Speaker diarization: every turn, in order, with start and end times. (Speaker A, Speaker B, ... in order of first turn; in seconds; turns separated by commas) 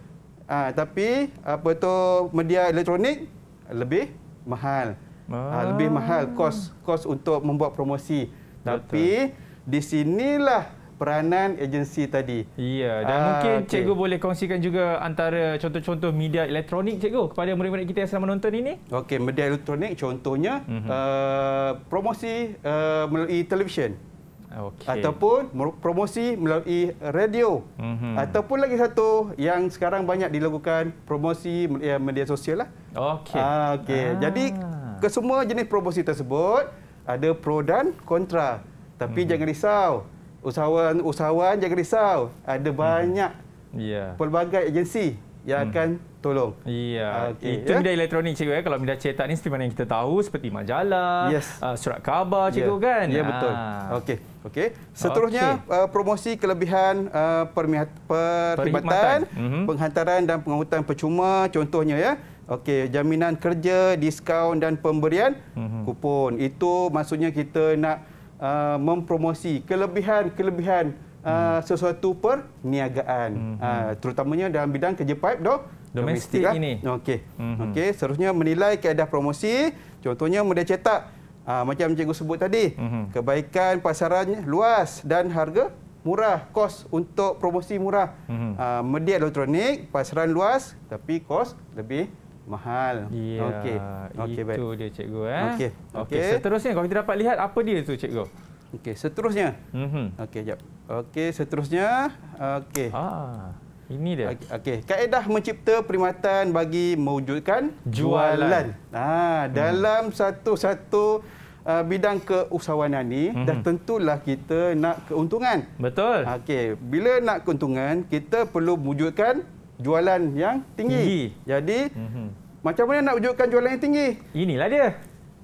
Speaker A: 0.5-5.0, Speaker B: 5.3-6.7, Speaker A: 5.5-12.4, Speaker B: 8.7-9.1, Speaker B: 12.6-18.8, Speaker A: 13.0-13.9, Speaker A: 18.9-24.0, Speaker B: 20.7-21.0, Speaker B: 24.6-25.1, Speaker A: 24.9-32.7, Speaker B: 27.8-28.4, Speaker B: 33.0-35.0, Speaker A: 33.3-43.3, Speaker B: 39.1-39.4, Speaker B: 42.8-43.1, Speaker B: 43.7-44.2, Speaker A: 44.2-46.5, Speaker B: 46.6-54.0, Speaker A: 47.1-47.9, Speaker A: 51.2-51.6, Speaker A: 52.5-94.6, Speaker B: 55.0-55.6, Speaker B: 58.6-59.7, Speaker B: 65.5-65.9, Speaker B: 73.4-73.9, Speaker B: 76.0-76.8, Speaker B: 77.4-77.8, Speaker B: 82.8-83.1, Speaker B: 88.3-88.6, Speaker B: 93.1-98.3, Speaker A: 95.4-96.4, Speaker A: 98.7-99.6, Speaker B: 99.7-100.2, Speaker A: 100.2-102.9, Speaker B: 102.9-104.3, Speaker A: 104.2-115.7, Speaker B: 107.9-108.7, Speaker B: 109.5-109.8, Speaker B: 113.3-113.7, Speaker B: 115.8-116.3, Speaker A: 116.2-121.9, Speaker B: 120.9-121.3, Speaker B: 122.0-122.3, Speaker A: 122.6-124.2, Speaker B: 124.3-124.9